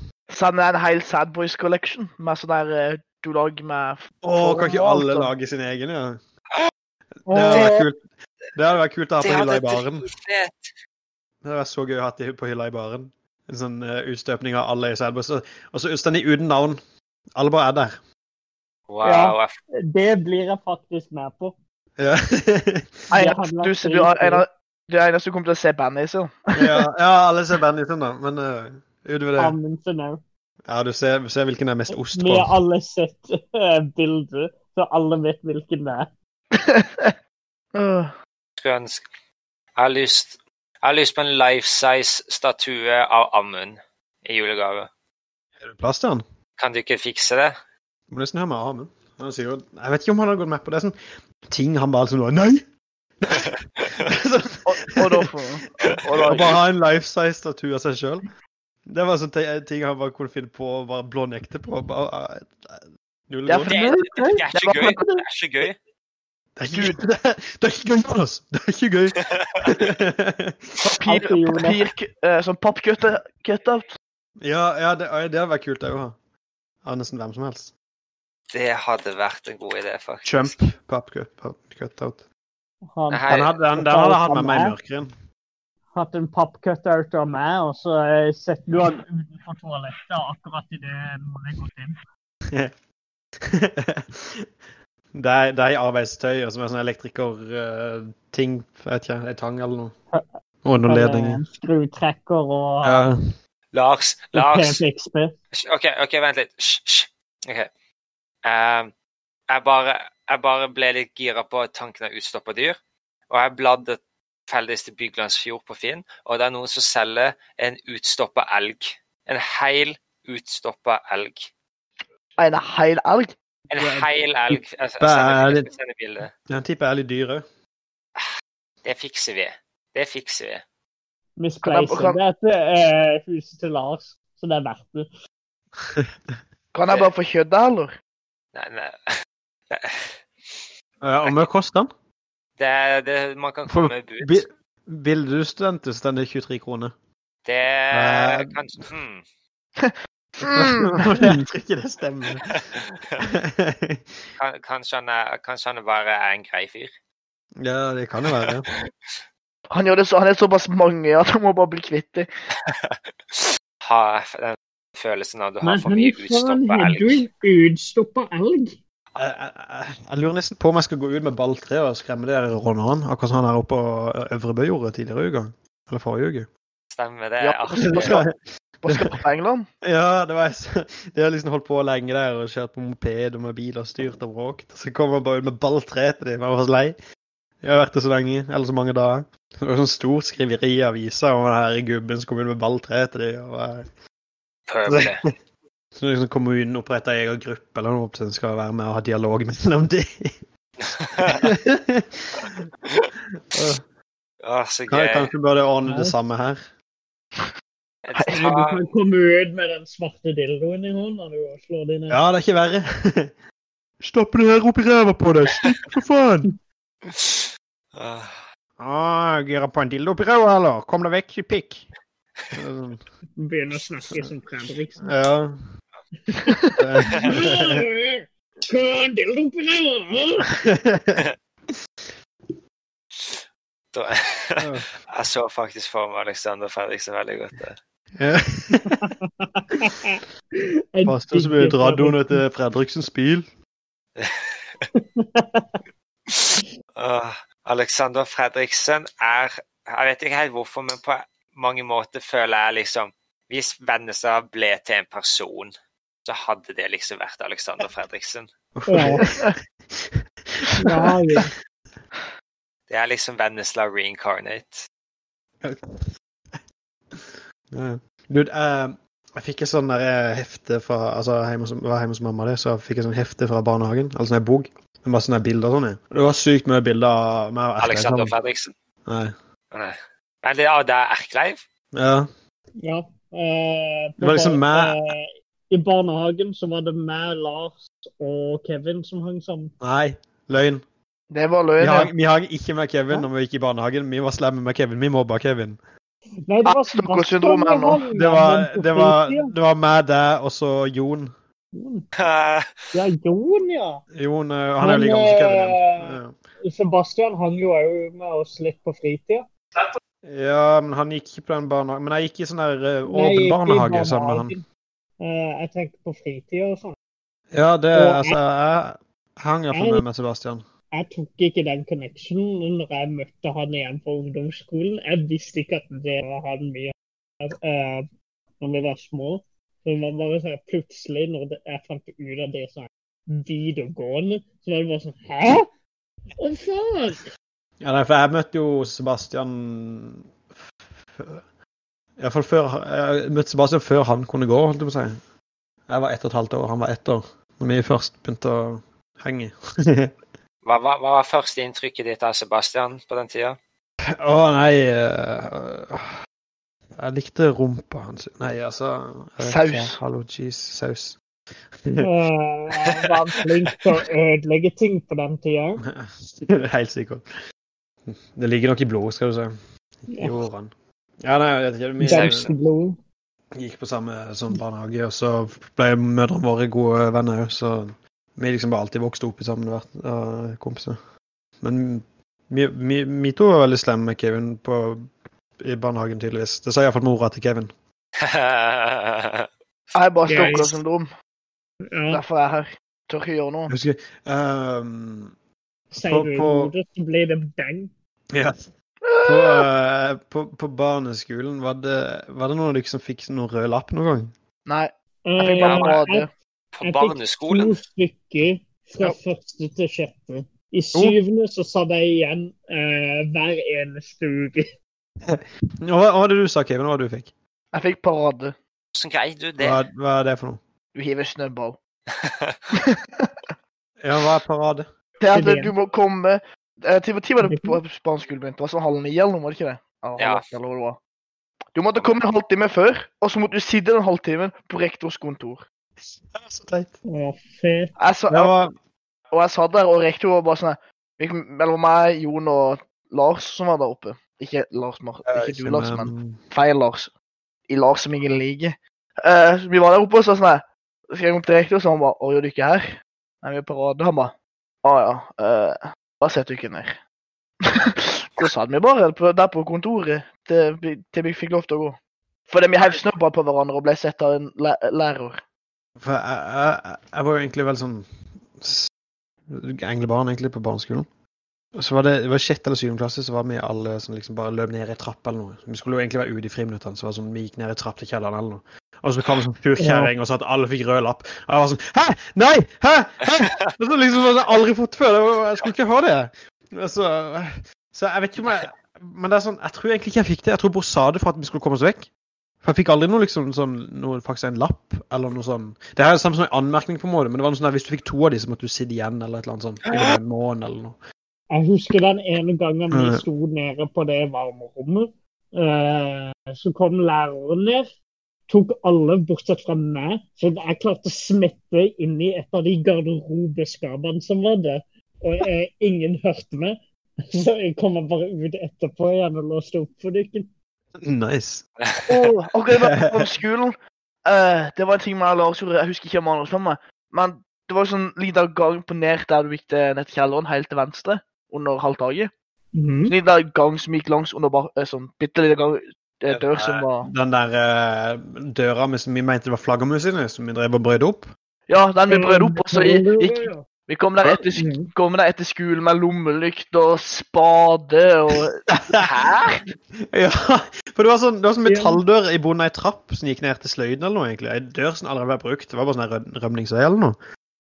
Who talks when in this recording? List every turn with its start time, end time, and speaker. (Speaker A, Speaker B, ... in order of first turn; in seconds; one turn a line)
Speaker A: 0.3-5.2
Speaker B: 4.2-6.2
Speaker C: 7.3-7.9
Speaker B: 7.3-8.0
Speaker B: 8.6-10.1
Speaker D: 9.2-10.7
Speaker B: 11.4-16.8
Speaker B: 17.4-18.0
Speaker D: 18.9-19.5
Speaker C: 19.0-21.6
Speaker B: 22.0-23.0
Speaker A: 23.1-26.8
Speaker C: 23.1-24.4
Speaker B: 26.6-29.6
Speaker C: 29.4-30.2
Speaker B: 30.7-32.5
Speaker C: 32.0-36.1
Speaker A: 36.5-37.1
Speaker A: 37.7-38.1
Speaker D: 38.6-39.0
Speaker D: 39.8-44.9
Speaker B: 45.6-46.2
Speaker D: 46.6-47.5
Speaker B: 48.1-51.0
Speaker B: 51.5-52.6
Speaker B: 53.2-55.3
Speaker D: 53.4-54.1
Speaker A: 54.7-56.6
Speaker B: 55.9-58.3
Speaker D: 55.9-56.4
Speaker B: 58.9-63.9
Speaker A: 63.5-65.2
Speaker D: 63.6-65.8
Speaker B: 66.6-70.9
Speaker A: 66.7-67.0
Speaker D: 69.2-69.8
Speaker A: 70.8-74.0
Speaker C: 71.1-71.8
Speaker B: 74.4-76.2
Speaker B: 76.8-77.7
Speaker D: 78.5-80.5
Speaker B: 80.2-82.2
Speaker C: 82.9-84.8
Speaker D: 83.1-83.5
Speaker B: 83.3-85.1
Speaker C: 85.9-92.0
Speaker B: 93.4-94.5
Speaker B: 95.1-100.0
Speaker B: 100.6-101.4
Speaker C: 100.9-103.1
Speaker B: 102.8-103.2
Speaker D: 103.7-104.8
Speaker C: 104.3-105.3
Speaker D: 105.5-107.7
Speaker D: 108.4-108.9
Speaker D: 109.5-112.8
Speaker D: 113.3-121.5
Speaker A: 122.4-123.3
Speaker D: 123.7-126.3
Speaker B: 123.8-125.7
Speaker B: 126.5-127.5
Speaker D: 128.8-130.6
Speaker C: 131.4-135.1
Speaker A: 131.6-132.2
Speaker B: 135.8-136.1
Speaker A: 136.7-137.9
Speaker D: 138.5-139.1
Speaker D: 139.7-140.7
Speaker B: 141.0-141.9
Speaker D: 142.6-144.4
Speaker B: 143.7-146.9
Speaker D: 147.4-149.2
Speaker B: 147.9-148.6
Speaker A: 149.8-151.2
Speaker B: 150.4-152.6
Speaker D: 152.4-153.2
Speaker B: 153.2-154.2
Speaker D: 154.4-156.9
Speaker B: 157.6-158.7
Speaker D: 158.3-159.1
Speaker A: 159.7-162.3
Speaker D: 162.6-167.2
Speaker C: 165.6-168.8
Speaker B: 169.2-176.5
Speaker D: 176.9-178.2
Speaker A: 177.4-178.2
Speaker B: 177.8-179.2
Speaker A: 178.8-179.7
Speaker B: 179.8-187.0
Speaker B: 187.6-193.9
Speaker D: 194.7-195.2
Speaker B: 194.9-195.3
Speaker B: 196.0-200.3
Speaker D: 200.8-201.5
Speaker B: 201.2-202.7
Speaker B: 203.4-203.8
Speaker D: 204.4-205.3
Speaker B: 204.9-206.6
Speaker C: 205.9-206.2
Speaker D: 208.1-208.8
Speaker A: 208.1-208.4
Speaker C: 208.3-212.2
Speaker B: 212.1-213.3
Speaker B: 214.0-216.5
Speaker D: 217.1-218.4
Speaker B: 218.8-221.9
Speaker B: 222.5-223.0
Speaker C: 223.4-225.1
Speaker B: 225.0-225.6
Speaker C: 226.3-226.6
Speaker A: 226.5-226.8
Speaker B: 226.8-227.8
Speaker C: 227.2-230.5
Speaker B: 230.6-231.8
Speaker D: 233.2-233.4
Speaker D: 233.9-237.8
Speaker B: 234.6-234.9
Speaker B: 238.2-239.1
Speaker C: 239.0-242.4
Speaker B: 241.1-243.5
Speaker D: 244.2-244.8
Speaker C: 244.9-245.8
Speaker D: 246.3-255.7
Speaker D: 256.2-258.5
Speaker B: 258.8-260.8
Speaker C: 258.9-259.2
Speaker A: 259.2-259.6
Speaker C: 260.8-261.5
Speaker D: 262.9-264.9
Speaker B: 265.6-266.6
Speaker B: 267.1-278.3
Speaker D: 277.8-278.7
Speaker B: 279.1-279.3
Speaker D: 279.7-281.6
Speaker B: 281.9-282.3
Speaker C: 282.8-289.7
Speaker B: 284.2-285.0
Speaker B: 289.8-290.8
Speaker A: 291.3-292.1
Speaker B: 291.8-295.8
Speaker C: 296.5-299.5
Speaker A: 296.6-298.1
Speaker B: 298.1-301.3
Speaker C: 301.7-302.1
Speaker D: 302.2-302.8
Speaker C: 302.9-304.0
Speaker B: 304.1-306.4
Speaker C: 304.8-309.5
Speaker B: 310.2-314.6
Speaker C: 313.1-314.6
Speaker C: 315.2-316.9
Speaker B: 317.5-320.6
Speaker C: 317.9-318.4
Speaker C: 319.7-320.0
Speaker C: 320.9-328.1
Speaker C: 328.6-335.7
Speaker C: 336.4-337.3
Speaker B: 337.8-340.3
Speaker B: 341.2-341.4
Speaker B: 342.2-345.2
Speaker B: 345.9-350.1
Speaker D: 350.6-353.6
Speaker B: 354.2-356.1
Speaker B: 357.0-361.2
Speaker A: 359.4-360.0
Speaker C: 362.0-365.8
Speaker B: 365.9-367.2
Speaker B: 368.1-369.6
Speaker B: 370.1-370.7
Speaker C: 370.1-370.4
Speaker B: 371.2-372.5
Speaker C: 372.0-373.0
Speaker D: 372.1-372.5
Speaker B: 373.6-381.0
Speaker B: 381.6-385.1
Speaker B: 385.6-387.7
Speaker D: 388.2-389.5
Speaker A: 389.9-391.1
Speaker C: 390.3-390.7
Speaker C: 391.9-392.2
Speaker A: 392.1-393.7
Speaker B: 393.7-395.3
Speaker B: 395.9-396.7
Speaker C: 395.9-397.9
Speaker B: 398.3-398.7
Speaker A: 399.0-399.7
Speaker B: 399.2-404.3
Speaker A: 404.7-406.3
Speaker C: 405.3-406.3
Speaker D: 405.6-406.0
Speaker D: 406.7-407.8
Speaker C: 406.8-414.7
Speaker B: 415.3-417.3
Speaker A: 417.7-418.6
Speaker D: 418.9-419.8
Speaker B: 419.6-420.6
Speaker A: 420.9-421.8
Speaker D: 422.1-422.6
Speaker A: 422.7-423.3
Speaker B: 424.0-424.9
Speaker A: 425.2-431.0
Speaker C: 425.3-425.7
Speaker C: 427.4-427.8
Speaker D: 430.2-430.4
Speaker A: 431.8-435.6
Speaker B: 436.0-437.0
Speaker C: 437.1-437.9
Speaker A: 438.0-438.5
Speaker B: 438.3-438.7
Speaker A: 439.3-447.1
Speaker B: 445.3-446.4
Speaker A: 447.7-457.0
Speaker A: 457.7-462.0
Speaker A: 462.5-465.4
Speaker B: 466.0-468.9
Speaker B: 469.5-471.1
Speaker B: 471.8-492.1
Speaker C: 479.8-480.1
Speaker B: 492.6-501.0
Speaker D: 499.9-500.1
Speaker C: 501.5-507.9
Speaker B: 502.9-503.2
Speaker C: 508.5-520.5
Speaker B: 521.0-521.6
Speaker A: 522.1-532.3
Speaker B: 522.8-523.2
Speaker C: 532.7-533.1
Speaker A: 533.1-537.1
Speaker B: 536.3-541.3
Speaker A: 541.7-548.6
Speaker C: 542.1-543.6
Speaker C: 544.6-544.9
Speaker B: 548.7-549.1
Speaker D: 549.0-549.6
Speaker B: 550.0-557.2
Speaker C: 551.6-552.0